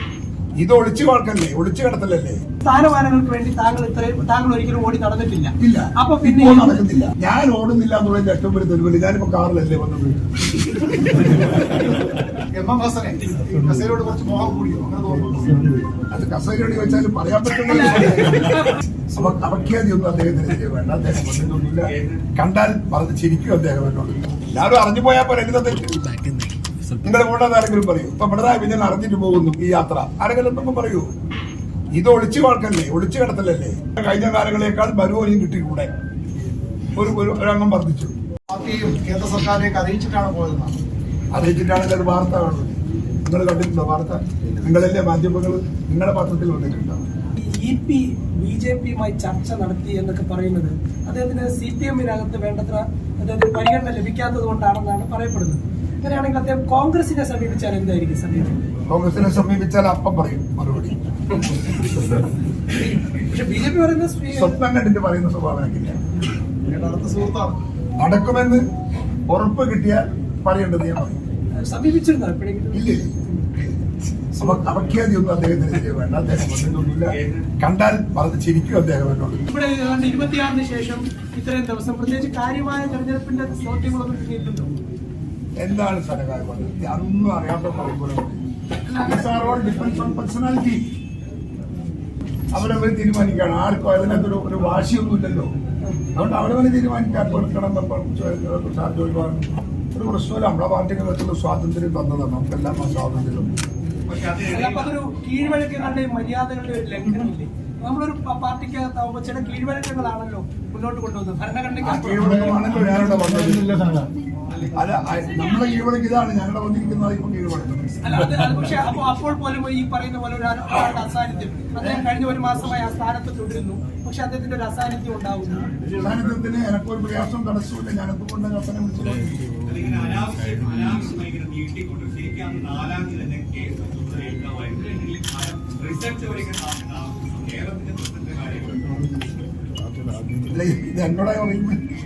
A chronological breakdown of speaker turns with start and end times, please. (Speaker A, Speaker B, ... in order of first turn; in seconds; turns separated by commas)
Speaker A: 0.6-2.4, Speaker B: 2.6-6.8, Speaker A: 5.6-11.4, Speaker C: 12.5-15.8, Speaker A: 16.1-26.4, Speaker B: 17.7-18.8, Speaker D: 21.9-22.2, Speaker A: 27.0-31.1, Speaker A: 31.9-35.9, Speaker A: 36.9-38.1, Speaker C: 38.5-40.8, Speaker A: 41.3-47.0, Speaker B: 47.4-58.6, Speaker A: 58.9-61.0, Speaker B: 62.8-64.6, Speaker A: 64.3-66.0, Speaker C: 66.6-67.6, Speaker A: 68.0-68.6, Speaker A: 69.3-71.2, Speaker B: 71.6-73.5, Speaker A: 72.7-79.5, Speaker D: 77.1-77.5, Speaker B: 79.5-84.7, Speaker A: 85.6-90.8, Speaker A: 92.5-95.5, Speaker A: 96.1-103.6, Speaker D: 104.0-105.0, Speaker B: 104.5-112.5, Speaker A: 111.8-113.7, Speaker C: 112.5-114.1, Speaker A: 114.7-118.3, Speaker B: 118.0-125.7, Speaker A: 126.0-129.4, Speaker D: 129.6-139.0, Speaker A: 140.5-141.8